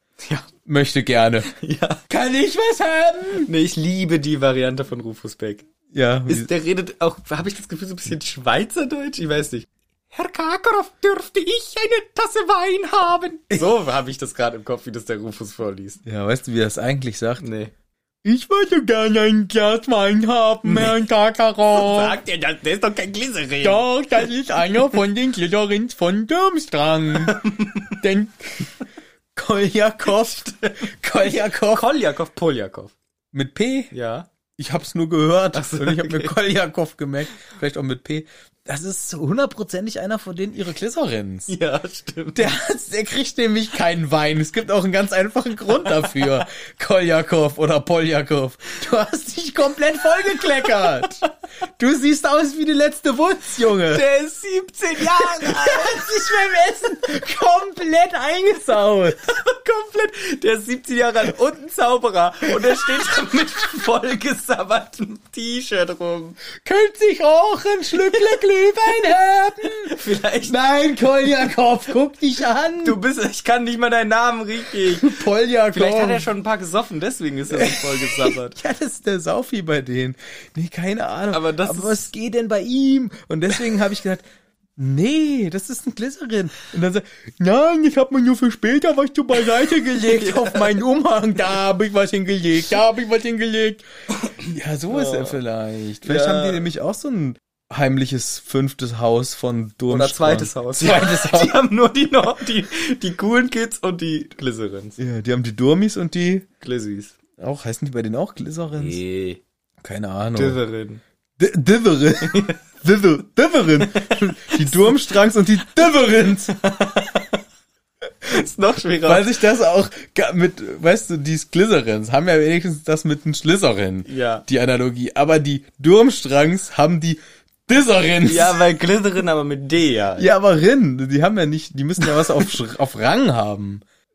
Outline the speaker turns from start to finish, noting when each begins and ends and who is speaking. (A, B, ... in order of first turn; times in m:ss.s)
0:00.2-0:00.5 A
0:00.6-0:01.5 B
0:01.5-0:02.0 A
0:02.1-0:03.5 B
0:03.5-0:05.7 A
0:05.9-0:06.5 B
0:06.3-0:16.0 A
0:16.0-0:17.4 B
0:17.4-0:17.7 A
0:18.2-0:22.2 B
0:20.6-0:21.0 A
0:21.7-0:24.3 A
0:23.6-0:28.7 B
0:27.2-0:28.0 A
0:29.4-0:31.9 B
0:30.1-0:32.9 A
0:33.3-0:33.9 B
0:33.9-0:34.3 A
0:34.6-0:41.5 B
0:35.5-0:36.4 A
0:41.5-0:42.6 A
0:42.4-0:51.2 B
0:45.8-0:46.3 A
0:50.3-0:51.2 A
0:51.8-0:54.0 B
0:53.9-0:56.4 A
0:55.0-0:59.2 B
0:59.2-1:06.4 A
1:06.6-1:13.0 B
1:08.0-1:08.4 A
1:09.8-1:10.6 A
1:12.8-1:18.6 A
1:14.8-1:16.3 B
1:17.5-1:24.2 B
1:21.3-1:22.1 A
1:24.8-1:33.8 B
1:29.6-1:30.8 A
1:34.4-1:41.6 B
1:34.9-1:35.4 A
1:36.0-1:36.7 A
1:39.9-1:45.0 A
1:45.0-1:46.5 B
1:46.6-1:47.2 A
1:47.4-1:49.0 B
1:48.8-1:49.4 A
1:49.8-1:50.6 B
1:50.4-1:51.0 A
1:51.4-1:56.6 B
1:52.2-1:52.6 A
1:53.8-1:55.0 A
1:56.5-1:57.4 A
1:58.2-1:59.4 A
1:59.0-2:08.6 B
2:04.1-2:04.4 A
2:08.2-2:10.3 A
2:10.2-2:13.8 B
2:12.0-2:12.5 A